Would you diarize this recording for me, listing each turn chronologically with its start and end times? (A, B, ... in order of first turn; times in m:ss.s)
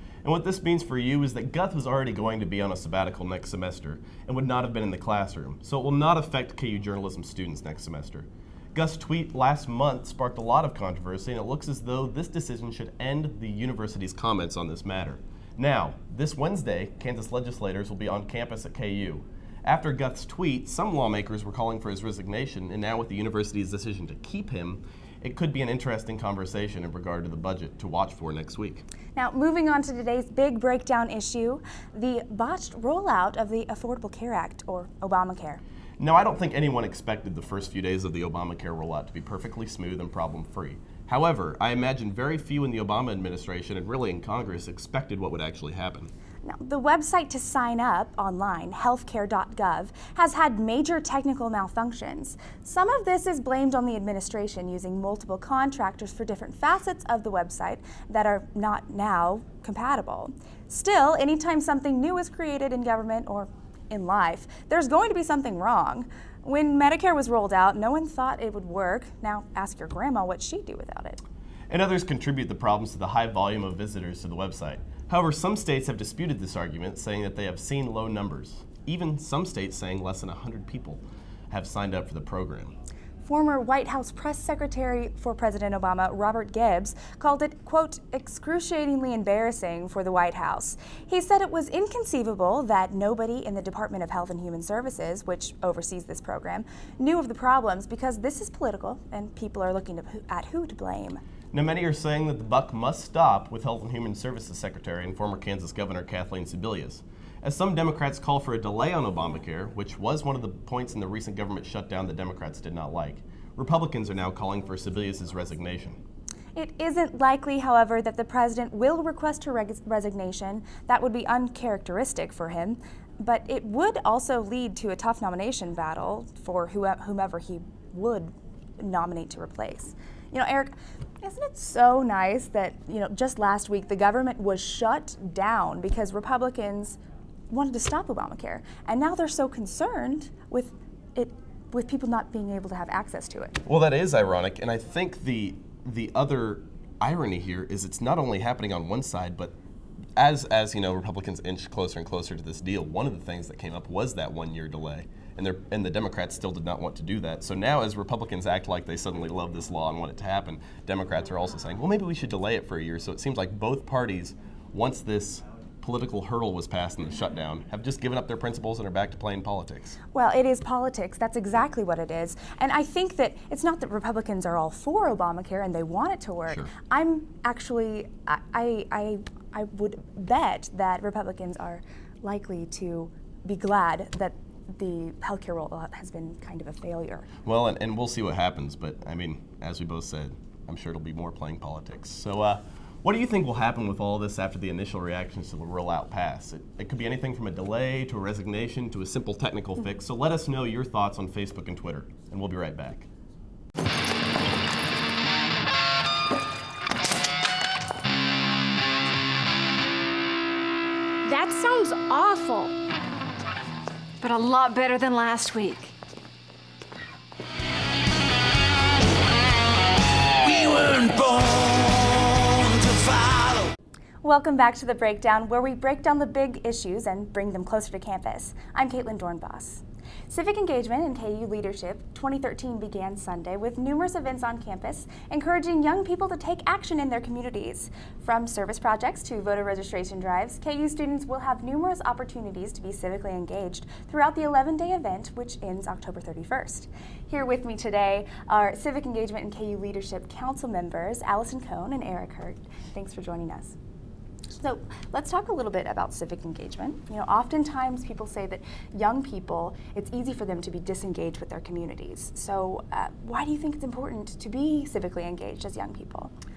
0:00.2-0:28.8 A
0:29.2-0:35.6 B
0:36.0-0:46.1 A
0:46.4-1:11.2 B
1:11.7-1:22.7 A
1:23.2-1:41.2 B
1:41.5-1:56.0 A
1:56.6-2:17.0 B
2:17.5-2:23.6 B
2:23.7-2:29.5 A
2:30.2-2:50.0 A
2:50.1-3:07.3 B
3:07.4-3:23.1 A
3:31.3-3:32.7 C
3:34.2-3:35.9 C
3:44.2-4:13.8 B
4:14.5-4:26.3 B